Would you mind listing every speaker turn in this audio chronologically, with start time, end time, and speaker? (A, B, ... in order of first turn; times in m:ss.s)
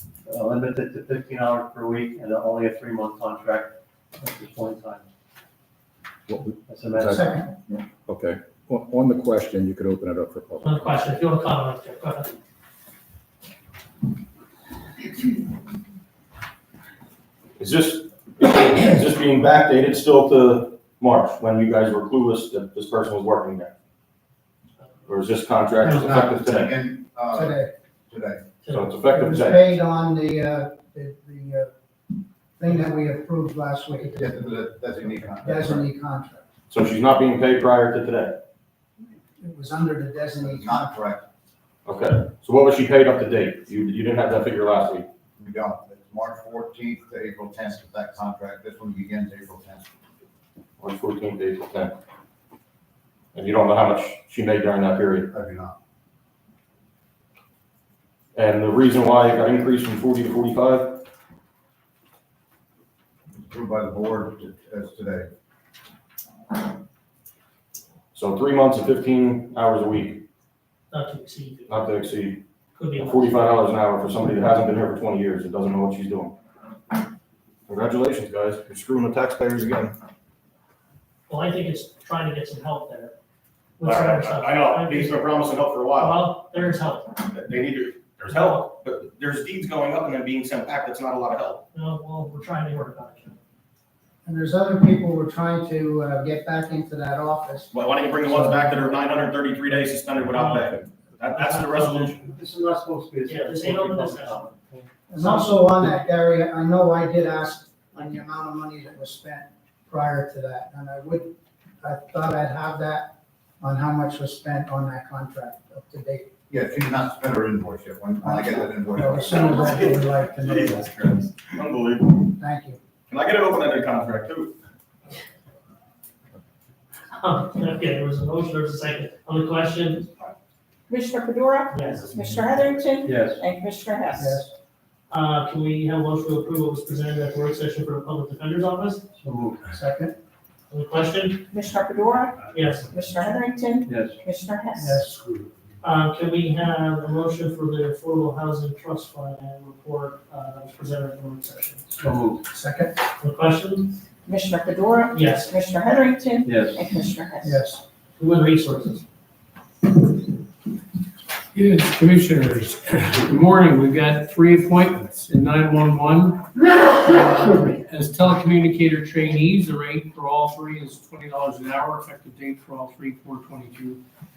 0:00.2-0:05.0 A
0:06.3-0:07.4 B
0:06.7-0:07.4 A
0:07.0-0:07.8 C
0:08.0-0:11.0 B
0:10.6-0:12.3 D
0:17.6-0:23.7 E
0:25.1-0:26.7 E
0:25.8-0:27.6 F
0:27.3-0:27.7 C
0:28.1-0:28.4 F
0:28.6-0:28.9 D
0:28.7-0:29.6 E
0:29.0-0:31.7 C
0:32.6-0:34.5 C
0:34.2-0:35.8 F
0:35.0-0:36.5 C
0:36.7-0:38.4 E
0:39.3-0:40.9 C
0:40.4-0:41.2 F
0:41.8-0:45.1 E
0:45.4-0:49.9 F
0:50.8-0:51.9 E
0:53.3-0:55.3 E
0:55.3-0:55.8 F
0:58.3-1:01.0 E
1:03.5-1:05.3 F
1:08.1-1:10.2 E
1:10.9-1:11.8 D
1:11.7-1:12.4 E
1:12.8-1:13.4 D
1:13.0-1:16.3 E
1:17.7-1:20.0 E
1:21.3-1:23.1 D
1:23.8-1:25.2 D
1:23.8-1:26.2 E
1:26.0-1:27.2 D
1:27.3-1:31.6 E
1:28.3-1:28.6 D
1:31.7-1:33.4 D
1:34.2-1:38.9 C
1:37.7-1:42.2 E
1:40.3-1:42.3 D
1:42.3-1:44.9 A
1:43.2-1:44.4 D
1:45.1-1:56.3 C
1:45.2-1:45.5 D
1:56.5-1:59.6 F
1:58.2-2:01.1 C
1:59.3-2:02.3 E
2:02.4-2:02.8 C
2:03.1-2:04.5 E
2:07.1-2:10.1 D
2:10.9-2:14.4 G
2:11.7-2:12.1 D
2:13.0-2:13.4 A
2:14.2-2:14.5 C
2:15.1-2:19.0 D
2:19.2-2:19.7 A
2:19.7-2:20.1 C
2:20.7-2:21.4 D
2:21.5-2:25.0 G
2:22.4-2:22.9 D
2:23.8-2:24.2 A
2:24.8-2:25.5 C
2:25.8-2:31.9 D
2:32.0-2:32.4 A
2:32.5-2:32.9 C
2:33.2-2:33.9 D
2:34.2-2:37.6 G
2:35.1-2:35.5 D
2:36.4-2:36.8 A
2:37.4-2:37.8 C
2:38.2-2:39.0 D
2:41.5-2:54.0 H